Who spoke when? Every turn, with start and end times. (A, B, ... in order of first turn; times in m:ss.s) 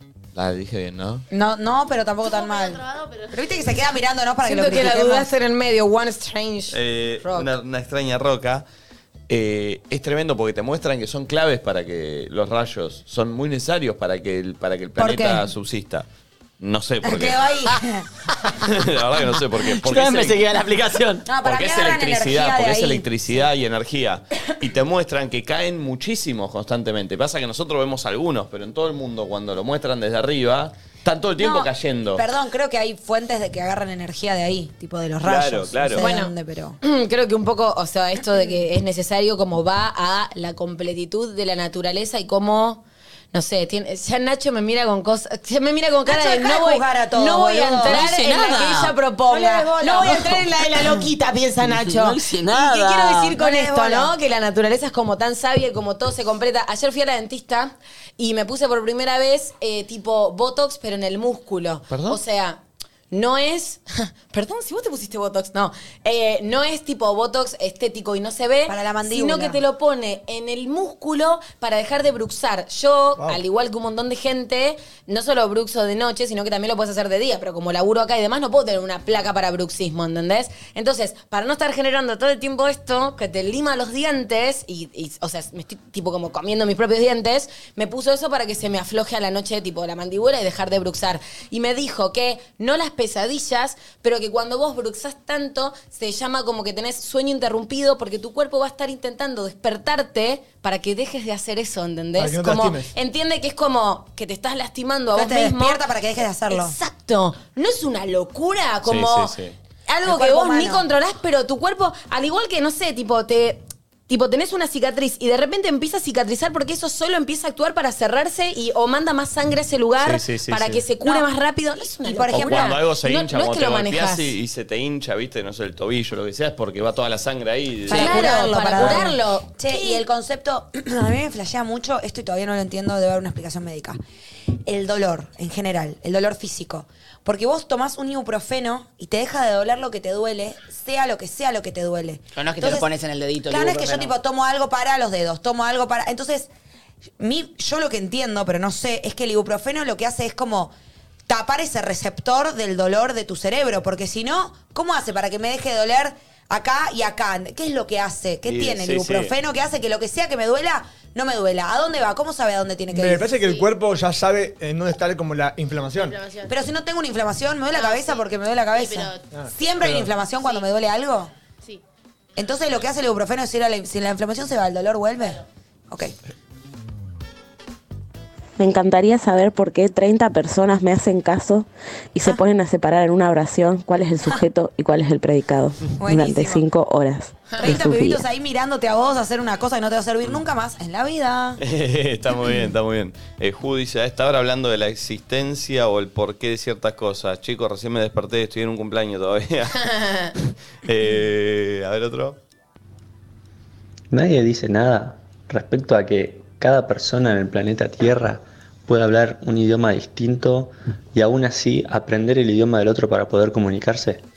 0:00.3-0:01.2 A
0:01.3-0:05.3 B
0:02.2-0:03.9 C
0:04.4-0:07.5 D
0:06.7-0:08.6 A
0:09.3-0:16.1 A
0:15.0-0:15.5 B
0:16.6-0:17.5 A
0:17.0-0:18.0 B
0:18.6-0:20.4 A
0:19.6-0:21.3 E
0:21.2-0:23.5 B
0:21.4-0:32.2 A
0:31.4-0:36.8 B
0:35.2-0:36.0 A
0:36.0-0:42.8 D
0:43.3-1:02.6 D
0:46.0-0:48.1 B
0:47.8-0:48.9 E
0:49.3-0:51.0 B
0:51.8-0:53.4 E
0:53.3-0:54.1 B
1:01.9-1:02.2 A
1:03.1-1:45.8 D
1:08.7-1:09.6 B
1:13.2-1:13.4 F
1:42.2-1:42.9 F
1:45.1-1:46.8 B
1:46.5-1:49.4 D
1:48.8-1:49.6 A
1:49.9-2:04.3 D
1:50.0-1:50.8 B
2:00.0-2:00.8 A
2:02.0-2:02.8 B
2:02.3-2:08.2 A
2:07.9-2:14.0 B
2:07.9-2:10.0 D
2:14.6-2:22.9 B
2:22.3-2:24.1 E
2:23.4-2:26.5 B
2:27.2-2:30.7 B
2:31.3-2:43.3 B
2:38.4-2:39.3 A
2:42.9-2:46.2 F
2:46.0-2:46.5 C
2:46.5-2:51.3 B
2:47.7-2:49.2 C
2:49.3-2:50.1 F
2:50.4-2:50.7 C
2:52.4-2:55.4 B
2:58.6-3:08.2 G
3:06.0-3:06.6 B
3:07.6-3:11.6 B
3:11.6-3:19.9 A
3:20.0-3:20.3 D
3:20.8-3:22.4 A
3:24.1-3:34.2 H